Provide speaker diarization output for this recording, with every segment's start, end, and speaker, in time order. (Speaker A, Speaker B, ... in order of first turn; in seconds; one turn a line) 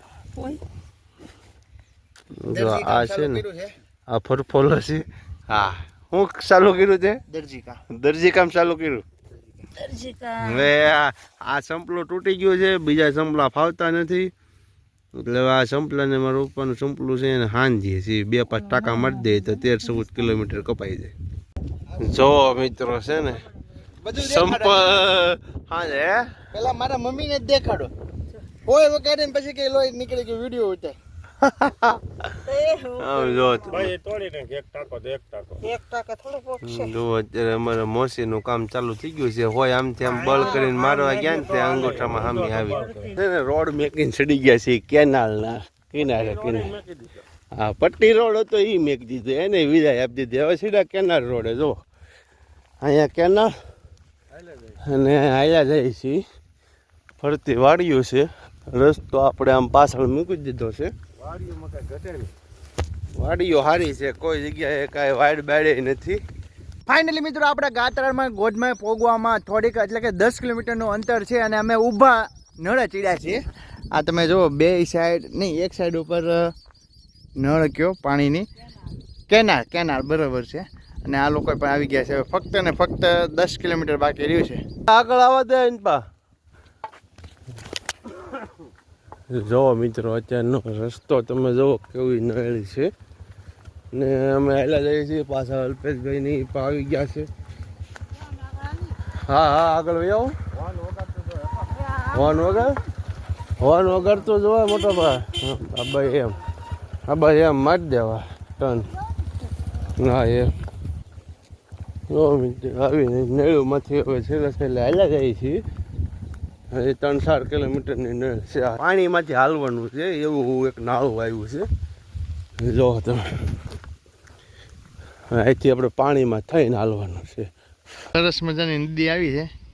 Speaker A: 0.3-0.6
Speaker B: 2.4-3.4
Speaker C: 2.5-3.7
Speaker B: 4.1-7.2
Speaker C: 7.3-7.8
Speaker B: 7.9-9.0
Speaker A: 9.8-10.7
Speaker B: 10.4-14.3
Speaker B: 15.2-21.1
Speaker B: 22.0-23.5
Speaker C: 24.0-24.9
Speaker B: 24.2-26.4
Speaker C: 26.5-27.9
Speaker C: 28.6-31.0
Speaker B: 31.4-32.3
Speaker A: 32.5-33.9
Speaker B: 33.0-33.9
Speaker D: 33.6-35.7
Speaker A: 35.6-36.9
Speaker B: 36.6-46.8
Speaker D: 40.0-43.1
Speaker A: 42.8-43.1
Speaker D: 46.0-47.2
Speaker B: 47.5-51.8
Speaker B: 52.8-53.5
Speaker D: 54.3-54.8
Speaker B: 54.8-56.2
Speaker B: 57.2-60.9
Speaker D: 61.2-62.3
Speaker B: 63.1-66.2
Speaker C: 66.9-73.4
Speaker C: 73.9-76.5
Speaker C: 77.4-78.5
Speaker C: 79.3-84.6
Speaker B: 84.9-86.0
Speaker B: 89.3-92.9
Speaker B: 93.9-97.3
Speaker A: 98.2-99.0
Speaker B: 99.2-100.3
Speaker D: 100.5-101.8
Speaker A: 101.7-102.9
Speaker B: 102.1-102.8
Speaker B: 103.6-106.3
Speaker B: 107.1-108.9
Speaker B: 110.0-110.6
Speaker B: 112.1-115.6
Speaker B: 116.7-121.7
Speaker B: 122.6-123.4
Speaker B: 125.3-127.5
Speaker C: 128.1-129.5